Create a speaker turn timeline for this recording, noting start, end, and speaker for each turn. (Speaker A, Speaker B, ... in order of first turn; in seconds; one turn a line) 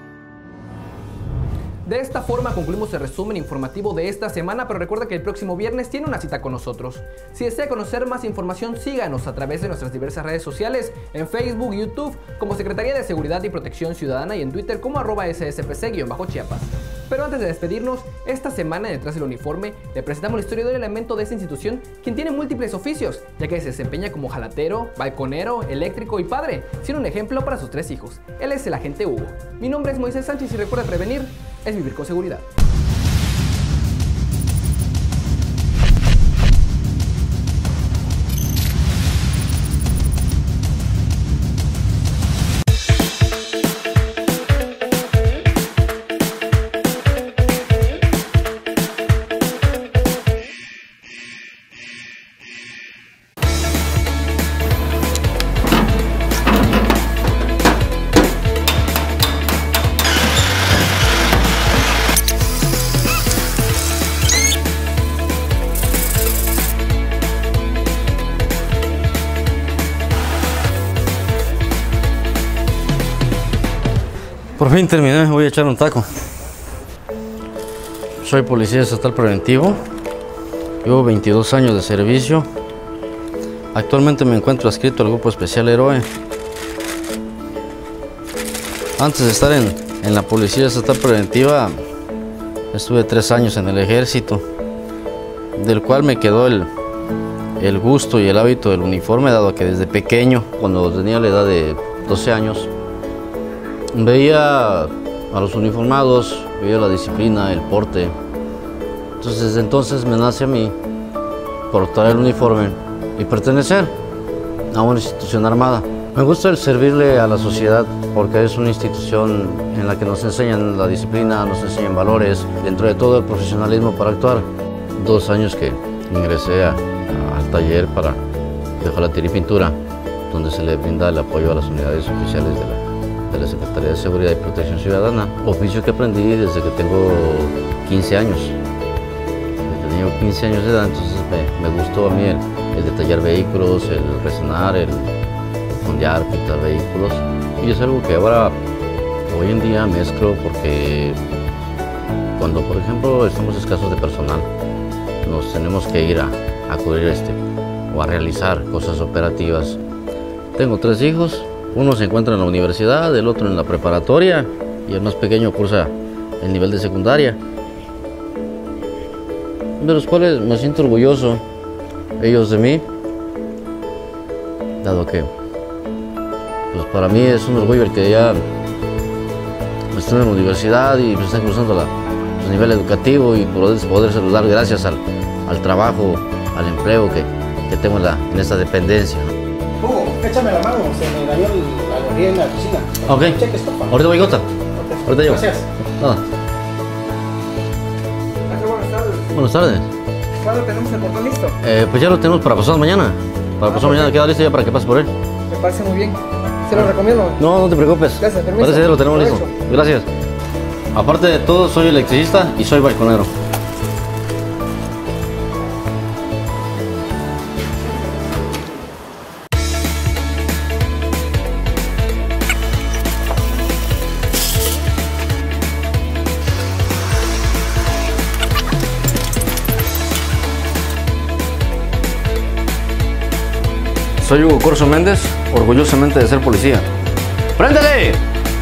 Speaker A: 1.9-32.5
Speaker B: 74.6-76.1
Speaker B: 78.2-79.8
Speaker B: 80.8-82.5
Speaker B: 83.7-86.1
Speaker B: 89.0-91.8
Speaker B: 92.7-94.4
Speaker B: 95.6-96.7
Speaker B: 97.6-102.7
Speaker B: 103.9-108.1
Speaker B: 109.2-110.8
Speaker B: 111.7-113.9
Speaker B: 114.7-124.5
Speaker B: 125.0-128.2
Speaker B: 128.8-129.8
Speaker B: 130.3-138.6
Speaker B: 139.6-145.1
Speaker B: 145.8-148.6
Speaker B: 149.3-151.2
Speaker B: 152.4-154.5
Speaker B: 155.2-157.4
Speaker B: 157.9-159.8
Speaker B: 160.6-167.4
Speaker B: 169.8-171.4
Speaker B: 172.2-172.8
Speaker B: 174.8-175.3
Speaker B: 176.7-178.5
Speaker B: 179.9-189.3
Speaker C: 189.8-194.0
Speaker B: 193.1-194.5
Speaker C: 194.8-195.6
Speaker B: 195.1-196.2
Speaker A: 198.5-198.9
Speaker B: 199.3-199.9
Speaker A: 200.5-201.1
Speaker B: 201.6-205.1
Speaker B: 206.7-210.1
Speaker A: 208.2-209.4
Speaker B: 210.9-213.3
Speaker B: 234.2-236.9
Speaker B: 237.6-238.2